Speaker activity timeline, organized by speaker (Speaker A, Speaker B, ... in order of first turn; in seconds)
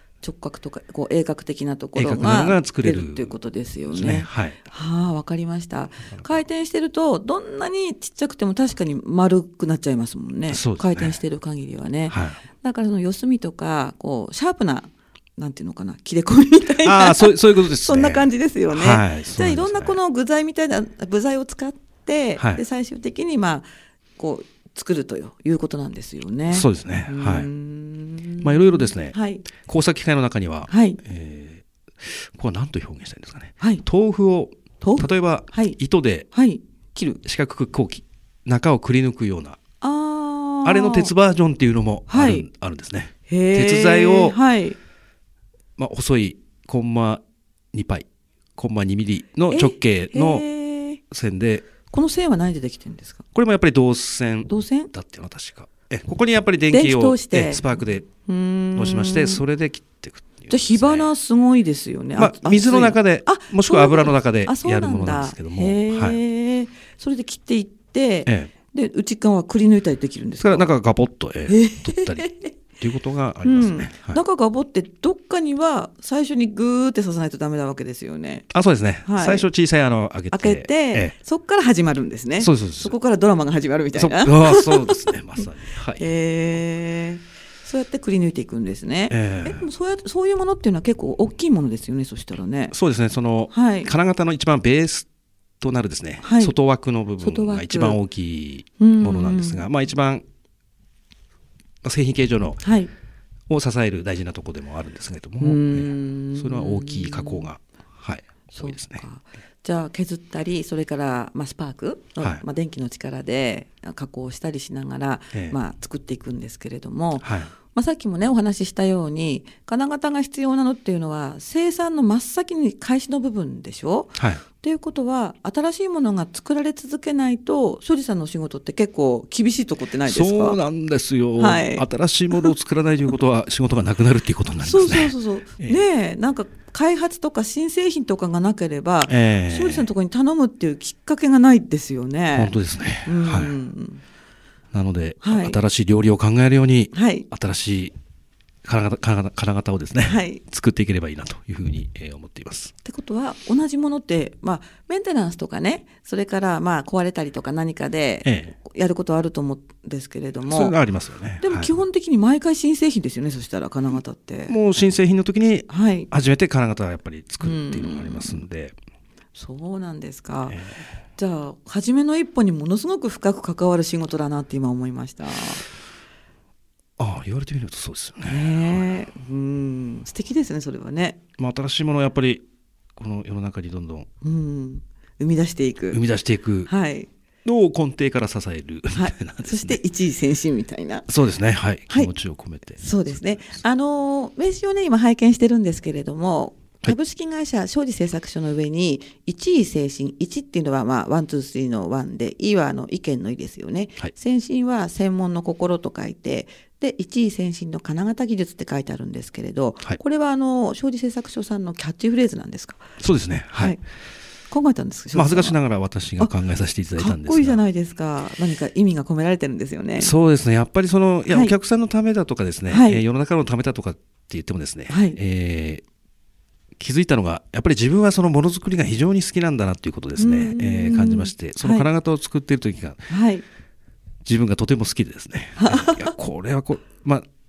Speaker A: 0.2-29.5, 30.7-31.0, 34.8-35.8, 36.3-37.2, 39.8-41.1, 42.1-42.5, 43.3-44.8, 49.5-51.0, 51.9-53.2, 54.5-54.9, 56.7-59.4, 60.5-70.7, 71.5-72.5, 73.4-78.5, 79.0-79.5, 80.3-85.1, 86.0-92.7, 93.5-93.9, 96.2-96.5, 97.2-98.0, 98.8-99.7, 102.6-102.9, 105.4-107.5, 108.5-130.6, 131.4-132.5, 134.6-142.5, 143.1-144.0, 145.2-145.6, 146.9-147.3, 150.0-150.4, 152.8-160.7, 161.4-164.6, 165.7-166.1, 167.4-168.4, 169.3-170.6, 171.2-175.6, 178.3-181.2, 184.2-186.0, 186.7-187.1, 188.9-191.1, 192.8-212.9, 214.5-215.6, 217.0-220.1, 222.7-223.0, 224.9-225.2, 230.2-231.9, 233.1-233.4, 235.6-236.1
Speaker B: 2.0-3.3, 3.9-4.6, 10.5-11.2, 12.1-12.4, 16.8-20.0, 26.5-27.5, 28.4-36.3, 37.2-39.6, 40.6-44.4, 45.8-50.5, 51.1-51.7, 53.3-58.1, 58.8-61.1, 62.2-66.2, 70.4-74.2, 78.5-81.1, 82.4-82.9, 84.0-86.0, 89.1-89.7, 92.7-95.1, 95.6-100.2, 101.8-102.6, 103.5-109.0, 117.2-117.5, 124.2-124.4, 130.1-135.8, 139.1-139.9, 142.3-143.5, 144.7-147.9, 148.7-152.7, 158.2-158.6, 160.5-161.7, 164.5-168.8, 170.5-170.8, 177.0-178.9, 181.4-182.4, 183.0-184.1, 185.9-186.7, 187.4-189.8, 191.1-193.6, 213.0-213.8, 215.1-217.6, 220.0-225.8, 226.8-233.1, 234.2-237.2